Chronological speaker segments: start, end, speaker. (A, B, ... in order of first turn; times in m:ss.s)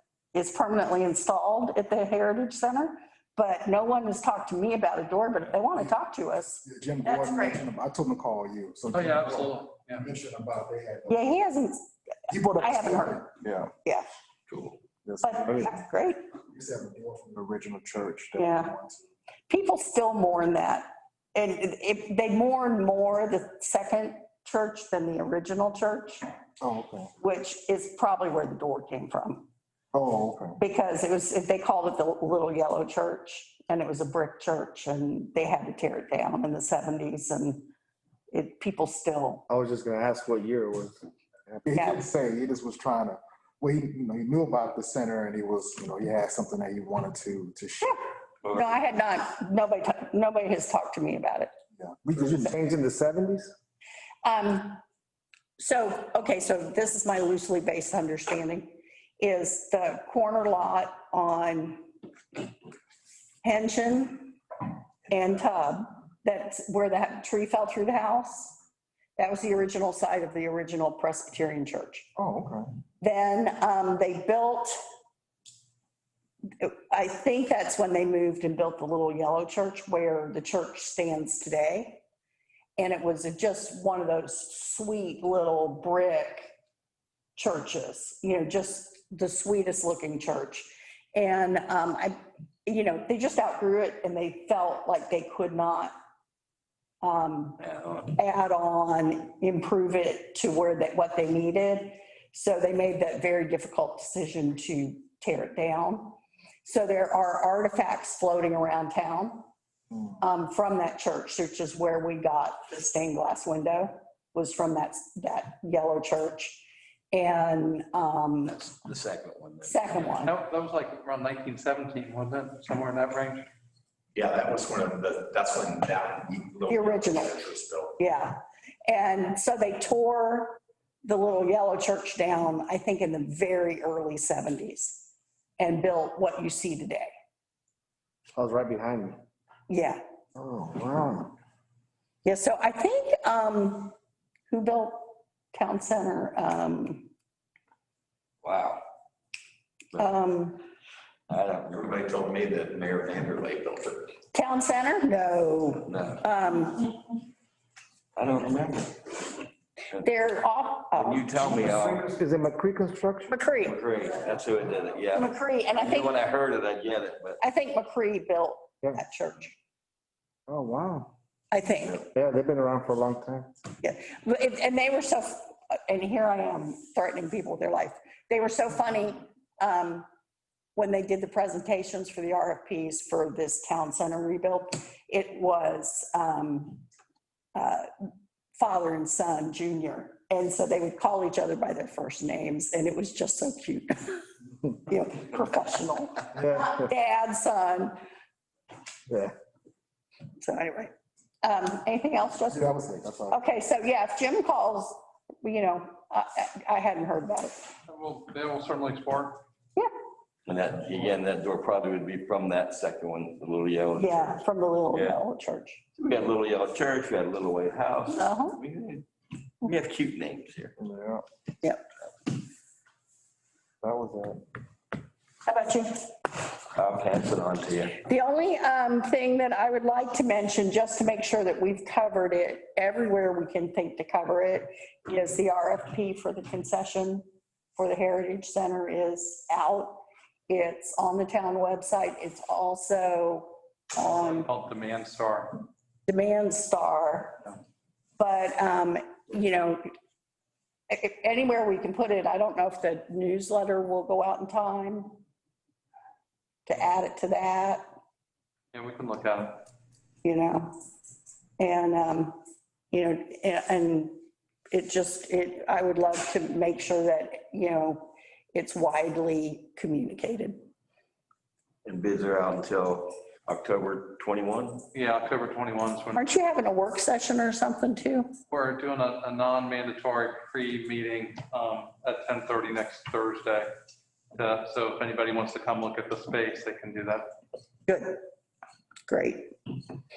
0:00.3-0:07.6 A
0:06.6-0:11.2 B
0:08.9-0:10.0 C
0:11.1-0:11.9 A
0:12.3-0:13.7 B
0:12.6-0:13.2 A
0:14.5-0:14.8 D
0:15.0-0:15.7 B
0:15.2-0:16.2 A
0:16.5-0:19.0 B
0:18.4-0:18.7 A
0:19.5-0:26.2 A
0:26.6-0:27.1 B
0:27.2-0:29.5 A
0:29.9-0:30.6 B
0:30.6-0:37.7 A
0:38.3-0:39.4 A
0:39.5-0:41.7 E
0:41.6-0:48.0 B
0:41.7-0:42.0 A
0:48.4-0:48.8 D
0:48.5-0:51.5 A
0:51.8-0:52.5 B
0:52.1-0:53.5 E
0:54.2-0:54.8 A
0:55.6-1:01.9 A
1:03.4-1:04.4 A
1:05.1-1:08.6 A
1:09.2-1:12.1 A
1:12.2-1:12.7 B
1:13.0-1:14.7 A
1:16.6-1:22.0 A
1:22.8-1:26.5 A
1:27.4-1:35.9 A
1:37.0-1:37.6 A
1:37.6-1:38.1 D
1:38.1-1:49.5 A
1:50.2-1:58.6 A
1:58.5-2:00.1 D
1:59.6-2:00.3 A
2:00.2-2:03.4 C
2:04.1-2:08.0 F
2:06.7-2:17.1 A
2:18.3-2:19.2 E
2:19.7-2:20.0 A
2:20.4-2:21.3 E
2:22.2-2:23.9 A
2:24.5-2:27.1 A
2:28.4-2:28.8 D
2:30.0-2:30.6 A
2:31.3-2:33.2 D
2:31.9-2:34.1 F
2:34.3-2:36.9 A
2:35.8-2:36.2 D
2:38.2-2:39.4 D
2:40.0-2:41.3 A
2:40.9-2:42.1 D
2:41.6-2:43.3 E
2:43.3-2:43.8 A
2:43.6-2:47.4 D
2:45.1-2:46.2 A
2:47.4-2:49.6 A
2:50.5-2:51.1 E
2:51.5-2:52.0 A
2:52.1-2:53.5 E
2:53.8-3:00.0 A
3:00.8-3:06.8 A
3:07.5-3:07.9 A
3:08.6-3:14.2 A
3:14.9-3:18.0 A
3:16.3-3:16.9 E
3:19.1-3:19.3 E
3:20.4-3:22.7 A
3:22.5-3:23.4 B
3:23.3-3:27.7 A
3:27.9-3:29.4 C
3:30.4-3:34.4 D
3:34.0-3:35.8 A
3:34.9-3:35.2 D
3:35.9-3:39.0 D
3:38.1-3:38.6 A
3:39.6-3:40.7 D
3:40.8-3:41.2 B
3:43.8-3:44.4 B
3:45.4-3:46.0 A
3:46.7-3:48.0 D
3:48.0-3:57.2 A
3:57.8-4:04.5 A
4:04.0-4:05.6 C
4:06.1-4:07.5 A
4:08.2-4:09.8 A
4:10.9-4:15.2 A
4:16.6-4:17.8 A
4:18.7-4:19.6 C
4:20.2-4:20.7 A
4:21.6-4:22.4 A
4:22.9-4:24.1 A
4:24.7-4:30.6 A
4:31.8-4:34.8 D
4:34.9-4:36.3 C
4:36.1-4:38.3 A
4:38.5-4:43.7 C
4:44.3-4:47.3 C
4:47.9-4:48.2 A
4:49.1-4:49.5 A